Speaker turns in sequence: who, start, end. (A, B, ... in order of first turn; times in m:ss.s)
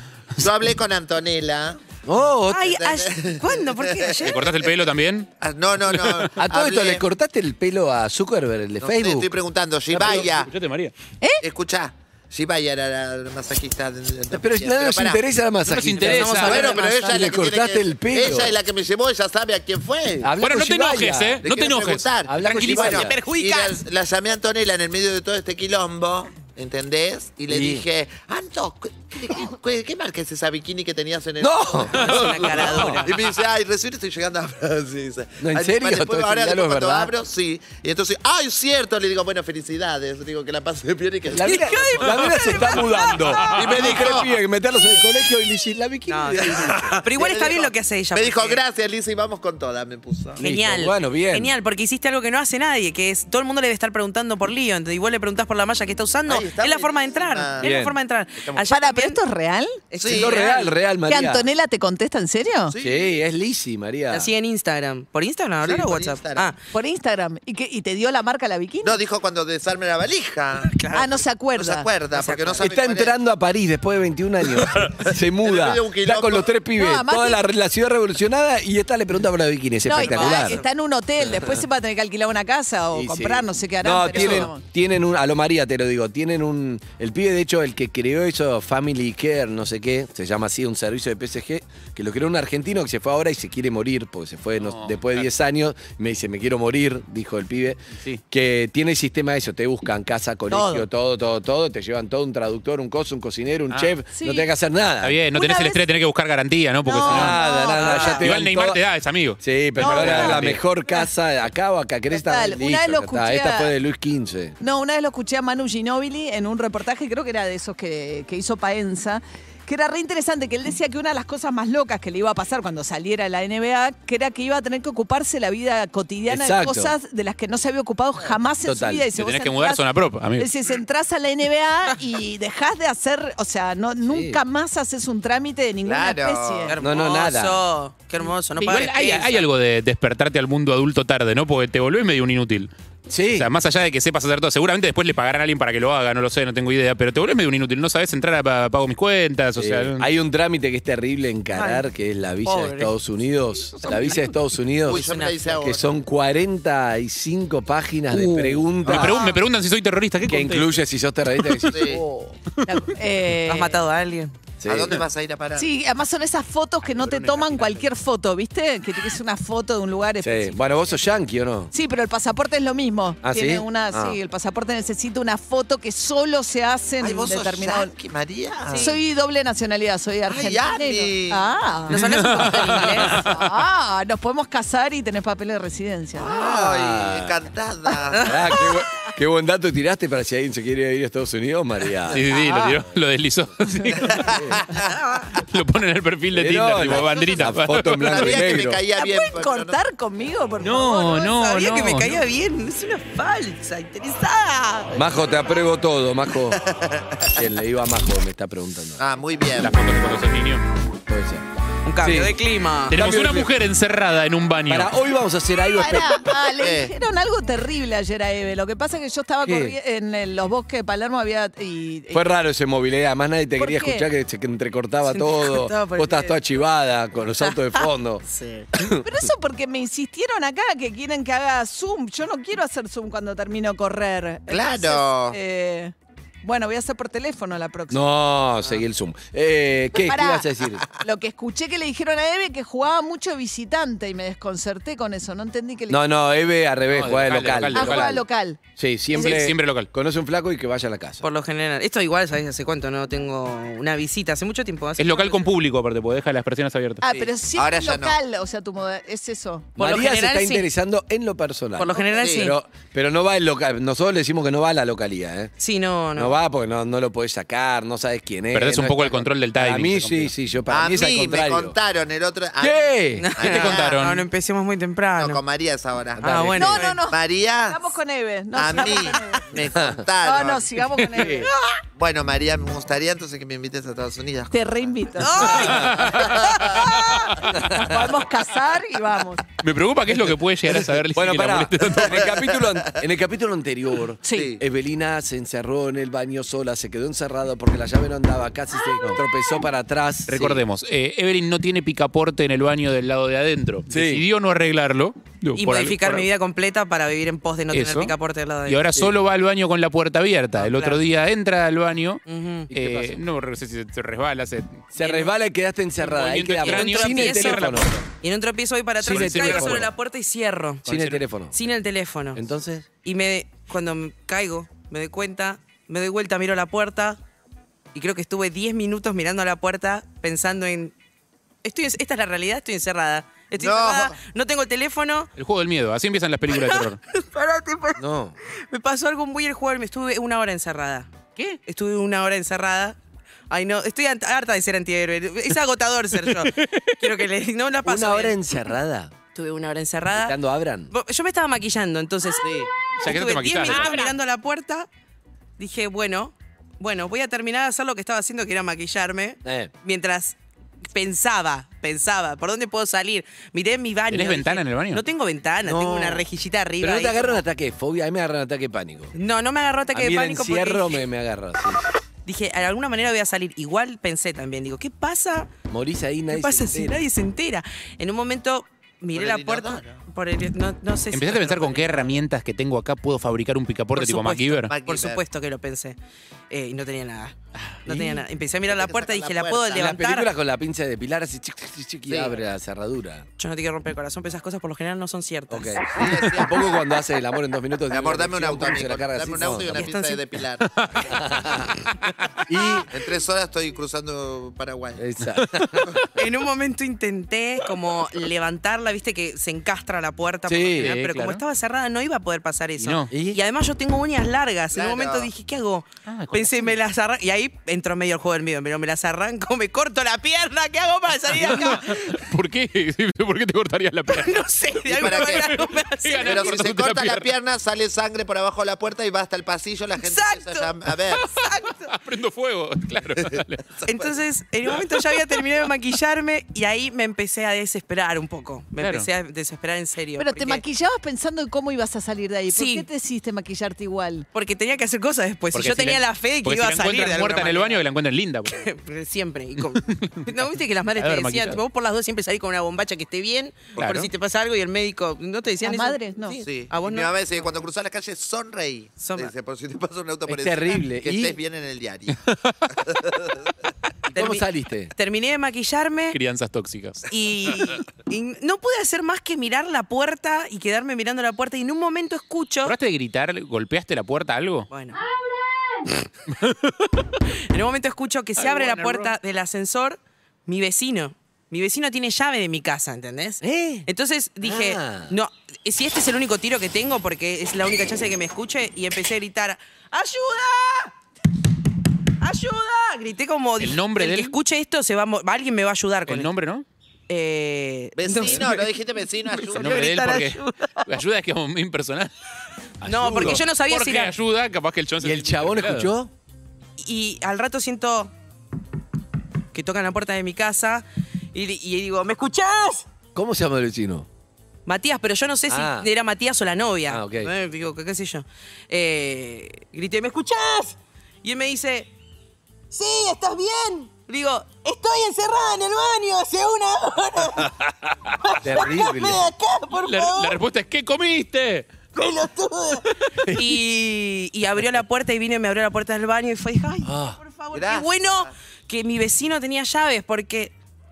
0:00.4-0:01.8 A
0:02.0-0:02.7 B
0:02.5-0:04.4 C
0:02.6-0:04.9 A
0:04.2-0:05.3 D
0:05.4-0:07.0 A
0:06.4-0:09.4 B
0:08.8-0:10.5 A
0:09.9-0:10.9 D
0:11.4-0:15.2 A
0:14.3-0:18.6 B
0:15.7-0:16.7 D
0:16.0-0:17.4 C
0:16.2-0:20.3 A
0:20.2-0:21.4 B
0:20.4-0:23.0 D
0:21.4-0:42.2 A
0:22.2-0:23.1 B
0:22.8-0:23.8 C
0:27.5-0:27.8 B
0:31.4-0:33.0 B
0:32.0-0:33.1 C
0:35.4-0:37.1 B
0:41.3-0:46.9 B
0:41.4-0:43.2 C
0:43.5-0:44.4 A
0:46.1-0:48.6 C
0:46.4-0:50.4 A
0:50.4-0:51.5 B
0:50.4-0:59.2 C
0:56.2-0:57.7 A
0:57.6-0:58.0 B
0:58.7-0:59.8 E
0:59.9-1:00.8 C
1:00.0-1:00.4 A
1:00.0-1:01.4 B
1:01.1-1:02.8 E
1:02.7-1:03.2 A
1:02.8-1:04.3 B
1:04.1-1:06.6 C
1:05.6-1:06.5 A
1:06.7-1:09.0 E
1:08.8-1:10.8 A
1:10.6-1:11.1 C
1:11.0-1:11.9 E
1:11.6-1:13.1 A
1:12.1-1:12.6 C
1:12.6-1:20.6 B
1:14.8-1:16.5 A
1:16.8-1:17.4 E
1:19.8-1:24.6 E
1:20.0-1:20.6 C
1:21.2-1:21.6 B
1:22.9-1:45.2 B
1:34.6-1:35.2 D
1:40.5-1:40.9 E
1:44.2-1:44.5 E
1:45.0-1:50.6 D
1:45.3-1:45.8 E
1:46.9-1:48.2 E
1:47.0-1:48.8 B
1:47.8-1:48.2 C
1:49.4-1:54.6 B
1:49.8-1:51.1 E
1:52.1-1:53.7 E
1:54.6-2:09.9 E
2:06.3-2:07.0 B
2:08.6-2:09.1 B
2:09.1-2:10.5 D
2:10.4-2:16.7 E
2:14.1-2:14.4 B
2:15.8-2:16.8 A
2:16.7-2:19.5 C
2:16.8-2:17.6 B
2:18.6-2:22.7 D
2:23.1-2:23.5 B
2:23.4-2:30.1 D
2:29.6-2:39.2 B
2:31.5-2:31.8 C
2:32.4-2:32.9 C
2:33.8-2:34.3 C
2:34.8-2:36.0 A
2:34.9-2:35.4 C
2:38.8-2:40.8 D
2:40.3-2:42.4 B
2:41.7-2:42.0 A
2:42.6-2:43.8 E
2:43.5-2:44.3 C
2:44.6-2:45.0 B
2:44.7-2:45.7 A
2:45.6-2:50.6 E
2:47.0-2:47.7 D
2:50.2-2:51.7 B
2:51.7-2:57.9 E
2:53.2-2:54.2 B
2:57.0-2:58.9 A
2:58.7-2:59.0 C
2:58.7-3:06.3 E
3:00.3-3:01.5 A
3:01.9-3:03.3 C
3:01.9-3:03.4 D
3:06.2-3:08.4 A
3:06.3-3:07.4 B
3:08.2-3:12.3 B
3:12.1-3:14.4 D
3:14.1-3:14.9 A
3:14.3-3:14.6 B
3:14.8-3:15.3 C
3:15.4-3:18.3 D
3:16.3-3:18.8 B
3:18.0-3:19.8 A
3:19.0-3:21.3 E
3:20.6-3:22.2 D
3:21.2-3:25.0 C
3:25.0-3:26.6 B
3:26.5-3:27.4 A
3:27.4-3:29.0 B
3:29.0-3:29.8 A
3:29.6-3:30.6 D
3:31.1-3:31.4 B
3:31.8-3:33.0 C
3:32.0-3:32.3 B
3:32.9-3:34.9 D
3:32.9-3:33.5 B
3:34.7-3:36.3 B
3:35.7-3:42.2 E
3:36.6-3:36.9 A
3:39.4-3:39.8 B
3:42.1-3:48.2 B
3:43.6-3:44.1 E
3:45.0-3:46.5 C
3:47.8-3:48.7 C
3:48.8-3:49.2 B
3:49.0-3:58.1 E
3:54.5-3:55.4 A
3:57.9-4:00.8 B
3:59.9-4:06.0 E
4:05.9-4:08.2 B
4:06.9-4:08.2 D
4:07.8-4:08.6 E
4:08.8-4:11.2 B
4:09.1-4:09.9 D
4:11.2-4:15.5 C
4:15.0-4:17.0 D
4:17.0-4:19.7 E
4:17.5-4:18.2 A
4:19.8-4:20.7 C
4:19.8-4:25.5 B
4:21.8-4:22.6 C
4:22.2-4:22.5 A
4:25.6-4:26.4 C
4:26.2-4:31.8 B
4:28.5-4:30.3 D
4:30.7-4:34.0 A
4:32.6-4:33.3 B
4:33.2-4:35.4 C
4:33.4-4:34.2 D
4:35.2-4:36.4 A
4:36.2-4:36.8 B
4:36.2-4:37.0 C
4:36.6-4:39.5 E
4:37.0-4:37.9 A
4:38.5-4:40.7 A
4:39.7-4:40.0 B
4:40.2-4:41.5 E
4:41.1-4:41.5 B
4:42.0-4:44.5 A
4:44.5-4:45.8 E
4:45.2-4:47.3 C
4:45.7-4:47.4 D
4:47.6-4:49.4 E
4:49.6-4:52.2 D
4:51.1-5:00.6 B
4:52.0-4:53.0 A
4:54.2-4:54.5 E
4:54.3-4:54.6 A
5:00.3-5:06.3 D
5:03.9-5:04.2 B
5:05.6-5:08.8 C
5:07.7-5:08.1 D
5:08.7-5:12.2 D
5:10.6-5:11.0 C
5:12.3-5:12.7 C
5:12.7-5:13.2 B
5:12.7-5:14.9 D
5:14.9-5:17.9 B
5:15.0-5:15.3 C
5:16.1-5:18.0 D
5:16.6-5:20.9 C
5:19.0-5:19.9 B
5:19.0-5:19.9 D
5:20.9-5:21.2 D
5:20.9-5:21.5 B
5:21.5-5:22.4 C
5:22.3-5:22.9 B
5:23.0-5:27.2 C
5:27.9-5:30.9 C
5:31.6-5:35.3 C
5:33.6-5:34.2 A
5:35.4-5:37.0 D
5:36.5-5:38.0 C
5:38.0-5:38.4 B
5:38.7-5:43.0 C
5:43.5-5:48.5 C
5:46.3-5:47.0 D
5:47.8-5:49.1 B
5:49.3-5:50.4 C
5:50.1-5:50.9 B
5:50.9-5:54.9 C
5:52.4-5:52.7 A
5:53.0-5:54.0 D
5:55.6-6:00.4 C
5:59.4-5:59.7 B
6:00.9-6:07.4 C
6:04.1-6:05.0 D
6:05.6-6:06.2 B
6:06.8-6:09.1 B
6:09.2-6:11.0 C
6:09.9-6:11.8 B
6:12.2-6:15.5 C
6:15.7-6:17.0 B
6:16.3-6:22.2 C
6:19.1-6:20.0 A
6:21.1-6:24.7 D
6:24.0-6:26.0 C
6:24.7-6:25.2 A
6:26.5-6:30.3 C
6:27.8-6:28.2 B
6:28.7-6:29.9 A
6:29.7-6:33.3 B
6:32.1-6:32.4 A
6:33.4-6:35.8 C
6:35.5-6:39.9 B
6:36.0-6:36.8 A
6:37.9-6:40.7 A
6:39.7-6:40.2 C
6:40.7-6:41.0 D
6:41.0-6:41.8 B
6:42.5-6:42.9 B
6:42.9-6:45.0 A
6:45.0-6:45.9 B
6:46.2-7:02.2 C
6:50.5-6:51.0 B
6:50.8-6:51.4 D
6:52.8-6:53.1 D
6:53.1-6:53.4 B
6:54.7-6:55.3 A
6:56.1-6:56.8 D
7:01.3-7:07.3 D
7:04.1-7:06.6 C
7:04.9-7:05.6 A
7:06.2-7:11.3 A
7:10.0-7:10.7 C
7:11.2-7:13.7 D
7:11.2-7:12.0 C
7:13.3-7:14.1 A
7:13.9-7:20.6 C
7:18.8-7:19.1 D
7:20.2-7:24.3 E
7:22.5-7:22.9 C
7:24.3-7:27.8 C
7:25.5-7:28.6 D
7:28.5-7:37.1 C
7:29.8-7:30.3 D
7:31.0-7:31.6 D
7:33.8-7:34.1 D
7:35.6-7:36.4 E
7:36.4-7:42.2 A
7:39.0-7:39.3 C
7:40.3-7:41.4 B
7:42.3-7:42.6 D
7:42.8-7:43.5 A
7:44.1-7:44.9 B
7:44.2-7:46.2 C
7:46.1-7:47.0 D
7:47.1-7:52.8 C
7:52.6-7:54.7 D
7:54.7-7:55.0 C
7:56.4-7:56.9 D
7:57.5-8:10.9 C
7:58.4-7:59.1 D
8:03.4-8:03.9 B
8:04.4-8:05.1 B
8:12.2-8:16.3 C
8:13.6-8:14.4 D
8:16.1-8:16.6 D
8:17.1-8:20.9 C
8:18.0-8:19.9 A
8:19.6-8:22.1 D
8:22.8-8:25.9 D
8:22.8-8:23.4 B
8:22.8-8:24.2 C
8:25.0-8:26.1 B
8:26.8-8:28.1 C
8:29.5-8:32.9 C
8:33.2-8:34.1 B
8:34.7-8:41.9 C
8:35.5-8:35.9 B
8:36.9-8:37.3 B
8:42.7-8:47.6 C
8:48.2-8:50.4 C
8:48.4-8:49.3 B
8:49.7-8:51.7 D
8:52.0-9:00.5 C
8:53.2-8:53.6 B
8:56.8-8:57.2 B
8:57.5-8:58.3 A